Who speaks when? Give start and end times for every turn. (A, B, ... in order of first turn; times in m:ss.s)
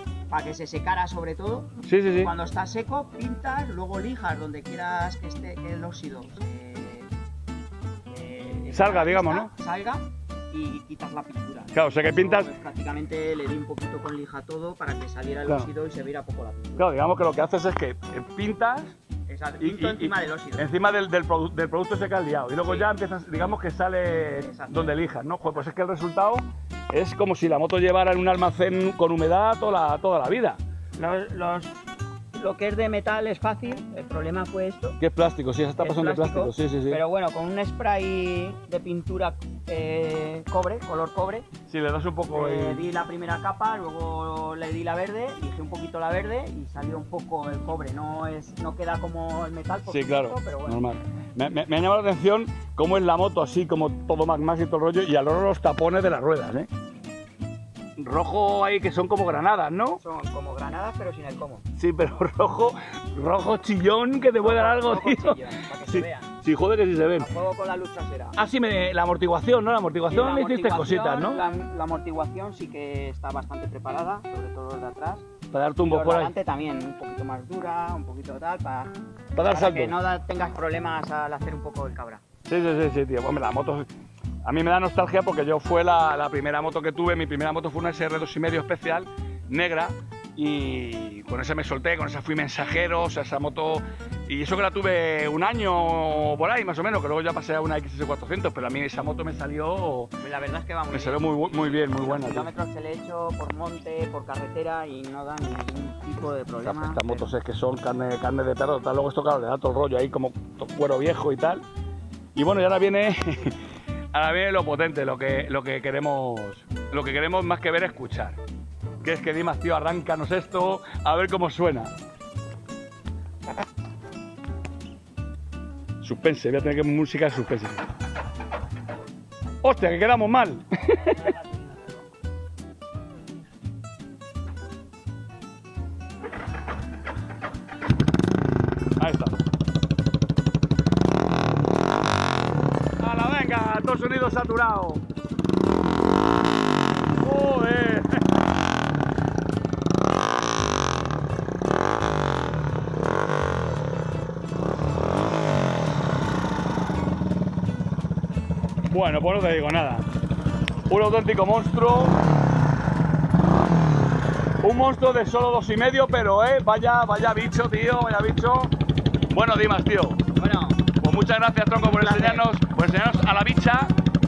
0:00.3-0:07.1 A
0:01.8-0:02.3 B
0:08.1-0:16.9 A
0:08.7-0:09.5 B
0:11.7-0:12.5 B
0:16.8-0:19.0 B
0:19.3-0:20.7 A
0:19.6-0:30.6 B
0:22.6-0:22.9 A
0:24.4-0:25.0 A
0:31.0-0:31.8 A
0:32.4-0:35.0 A
0:35.0-0:37.0 B
0:35.8-0:41.5 A
0:41.7-0:42.8 B
0:42.3-0:50.8 A
0:49.8-0:56.7 B
0:58.0-1:00.0 B
1:00.0-1:01.6 A
1:01.8-1:07.3 B
1:04.4-1:06.3 A
1:07.2-1:08.4 A
1:08.4-1:11.4 B
1:10.1-1:15.3 A
1:15.5-1:16.3 B
1:15.8-1:22.2 A
1:19.3-1:20.0 B
1:22.5-1:23.9 B
1:24.4-1:40.1 B
1:40.2-1:47.3 A
1:40.9-1:42.5 B
1:46.6-1:51.6 B
1:52.3-1:53.6 B
1:54.1-1:58.4 B
1:59.0-2:01.9 B
2:06.0-2:07.8 B
2:09.6-2:11.3 B
2:19.0-2:19.4 B
2:23.0-2:25.0 B
2:27.2-2:28.3 B
2:38.9-2:40.1 B
2:40.9-2:42.2 B
2:44.6-2:48.7 B
2:49.3-2:50.2 B
2:50.4-2:50.8 A
2:51.0-2:53.9 B
2:51.8-2:52.4 A